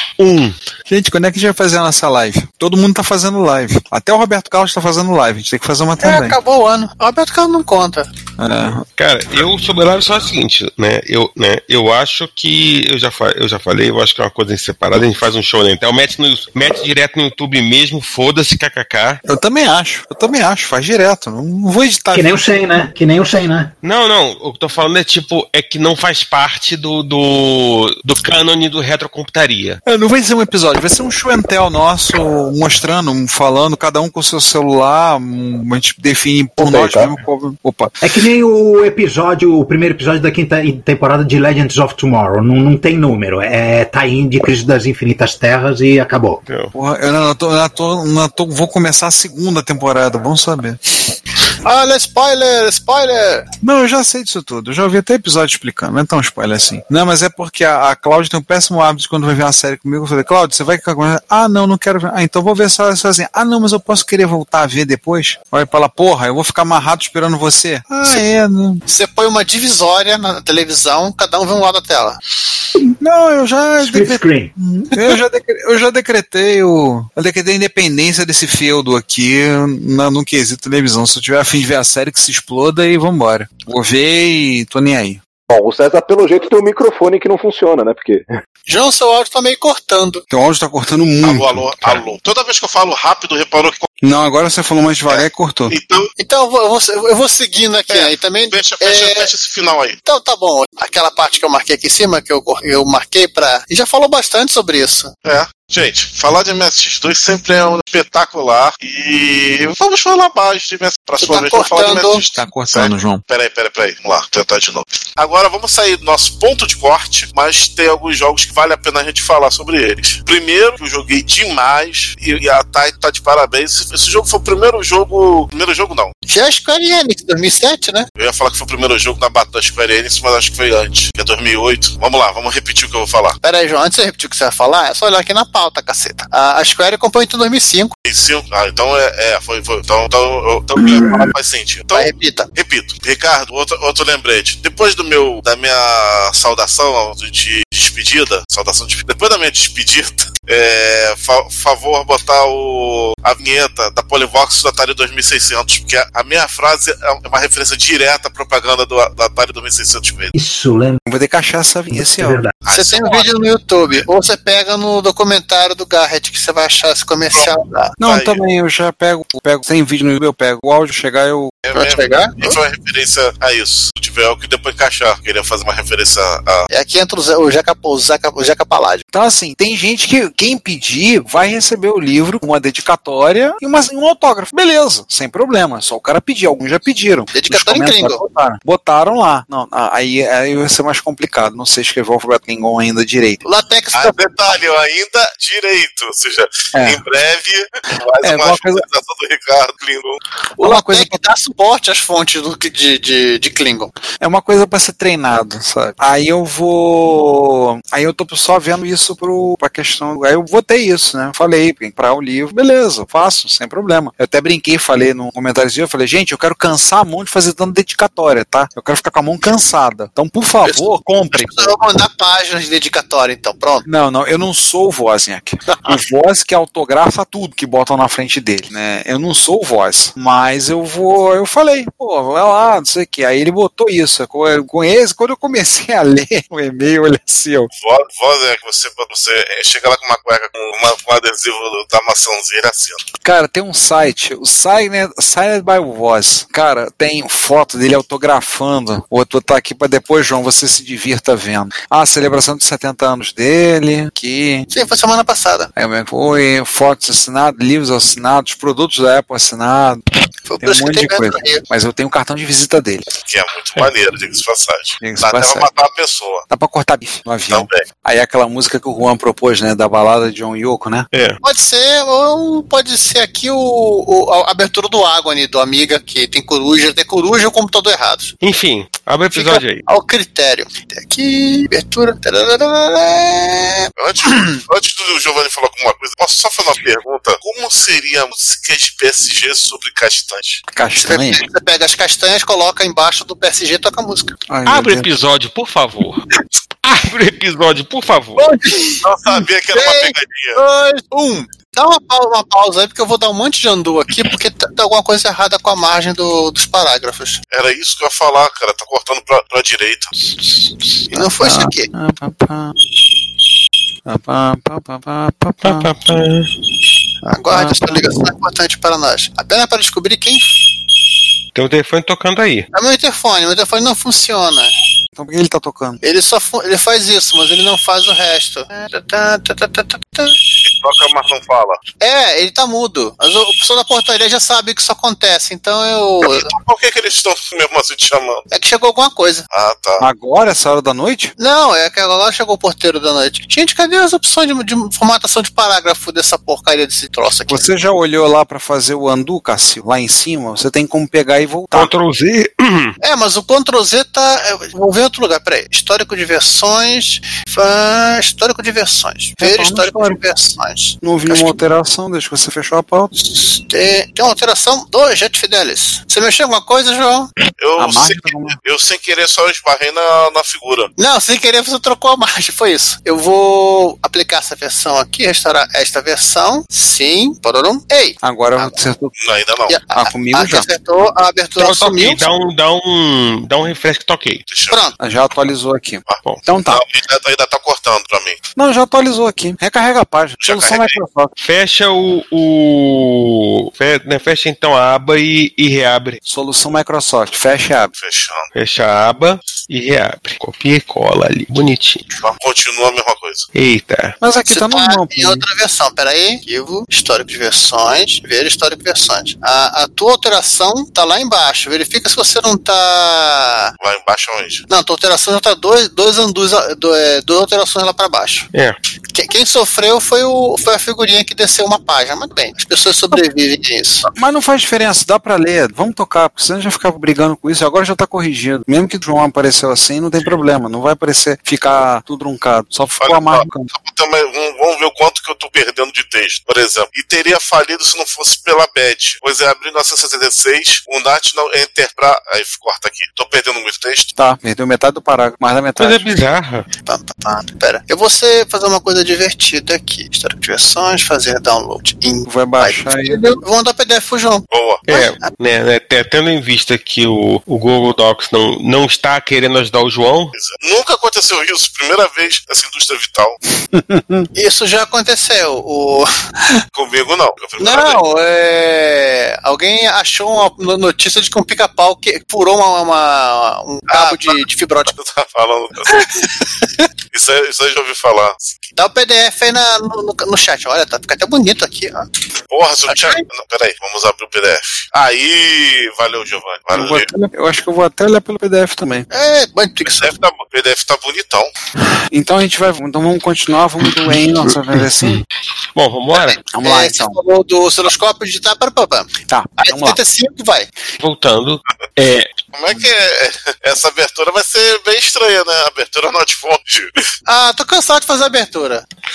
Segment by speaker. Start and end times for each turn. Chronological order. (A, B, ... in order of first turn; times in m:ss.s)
0:00.2-0:00.6 A
0:00.9-0:06.4 B
0:06.0-0:08.1 C
0:08.4-0:08.9 B
0:09.0-0:19.2 A
0:19.3-0:22.4 B
0:22.1-0:23.7 D
0:23.8-0:29.8 A
0:29.8-0:38.1 B
0:36.6-0:37.1 D
0:38.0-0:46.4 D
0:46.5-0:46.7 A
0:46.7-0:50.8 B
0:51.6-0:53.5 C
0:53.6-1:08.8 B
1:08.9-1:12.2 C
1:13.0-1:25.2 B
1:13.8-1:14.5 D
1:25.5-1:28.4 E
1:28.7-1:30.2 C
1:30.3-1:32.0 B
1:31.2-1:33.9 F
1:34.0-1:35.8 B
1:35.1-1:36.1 F
1:36.2-1:39.3 C
1:37.9-1:40.0 F
1:40.0-1:45.1 C
1:45.2-2:06.1 F
1:51.2-1:52.2 C
1:52.3-1:53.2 B
2:06.3-2:08.1 C
2:08.2-2:13.4 F
2:13.4-2:17.9 C
2:18.1-2:40.3 F
2:21.9-2:22.5 C
2:40.3-2:41.0 D
2:41.1-2:42.4 B
2:42.0-2:42.5 D
2:42.6-2:43.3 F
2:42.7-2:47.9 C
2:47.3-2:48.4 F
2:48.0-2:51.5 B
2:51.6-2:56.7 F
2:51.7-2:52.6 C
2:56.7-2:59.0 C
2:59.1-3:13.4 B
3:07.3-3:08.2 C
3:13.4-3:14.2 C
3:13.9-3:20.2 F
3:16.7-3:17.0 B
3:18.2-3:18.8 B
3:20.6-3:23.9 C
3:20.6-3:21.2 B
3:24.2-3:41.8 B
3:40.6-3:43.9 C
3:43.9-3:57.7 B
3:57.8-4:03.0 F
4:03.2-4:14.7 B
4:14.7-4:15.7 C
4:15.8-4:20.0 B
4:20.5-4:21.6 C
4:20.6-4:23.1 B
4:23.2-4:26.4 F
4:25.0-4:25.7 B
4:26.5-4:31.1 B
4:27.5-4:27.8 F
4:31.1-4:31.4 A
4:31.4-4:38.3 C
4:38.4-4:39.8 A
4:39.3-4:43.9 C
4:44.0-4:50.6 F
4:50.7-4:51.5 B
4:51.0-4:54.3 C
4:54.5-4:55.1 B
4:54.7-4:56.2 A
4:56.8-4:58.4 A
4:58.4-5:07.4 C
4:59.0-5:00.6 F
5:07.5-5:10.1 F
5:10.3-5:12.7 B
5:11.1-5:11.9 C
5:14.1-5:15.9 B
5:15.6-5:16.5 A
5:17.2-5:20.4 C
5:17.5-5:18.0 B
5:21.6-5:22.7 A
5:22.7-5:24.7 C
5:25.2-5:26.0 B
5:26.0-5:30.4 C
5:30.6-5:31.8 F
5:32.0-5:36.5 C
5:36.2-5:38.4 F
5:38.5-5:39.5 C
5:39.5-5:40.0 F
5:40.0-5:41.3 B
5:41.4-5:47.7 C
5:47.5-5:51.9 B
5:51.7-5:52.9 A
5:53.0-6:01.6 C
5:59.4-6:00.2 B
6:01.0-6:03.2 B
6:03.2-6:07.3 C
6:07.6-6:10.9 F
6:07.8-6:08.6 B
6:11.0-6:18.8 C
6:18.2-6:19.2 B
6:19.2-6:19.8 F
6:19.7-6:22.3 C
6:19.9-6:20.7 B
6:21.6-6:24.4 A
6:24.5-6:24.9 F
6:24.7-6:25.0 C
6:25.0-6:26.8 B
6:26.1-6:28.4 F
6:28.6-6:31.3 B
6:30.4-6:31.0 F
6:31.4-6:36.2 A
6:36.2-6:37.9 B
6:38.0-6:38.5 F
6:38.5-6:42.1 A
6:42.2-6:43.4 F
6:43.5-6:44.2 A
6:44.2-6:45.4 B
6:44.5-6:53.7 C
6:53.8-6:54.6 F
6:54.7-6:58.5 C
6:59.1-7:04.1 C
7:04.2-7:13.7 B
7:13.0-7:24.1 F
7:24.2-7:26.1 B
7:25.8-7:26.7 A
7:26.8-7:35.2 C
7:32.2-7:33.3 B
7:34.5-7:34.8 F
7:34.9-7:40.3 A
7:40.3-7:43.4 F
7:43.7-7:44.3 B
7:44.4-7:46.1 C
7:46.7-7:48.0 F
7:47.6-7:54.9 C
7:53.9-7:56.0 F
7:57.1-7:58.5 F
7:58.8-8:02.1 C
8:02.5-8:07.1 F
8:02.9-8:03.2 C
8:06.7-8:09.1 B
8:09.1-8:10.2 C
8:09.9-8:11.5 F
8:12.1-8:15.2 B
8:15.7-8:16.4 A
8:16.2-8:20.7 C
8:16.5-8:17.2 B
8:19.3-8:20.0 B
8:21.0-8:22.3 A
8:22.5-8:26.9 F
8:27.3-8:28.8 C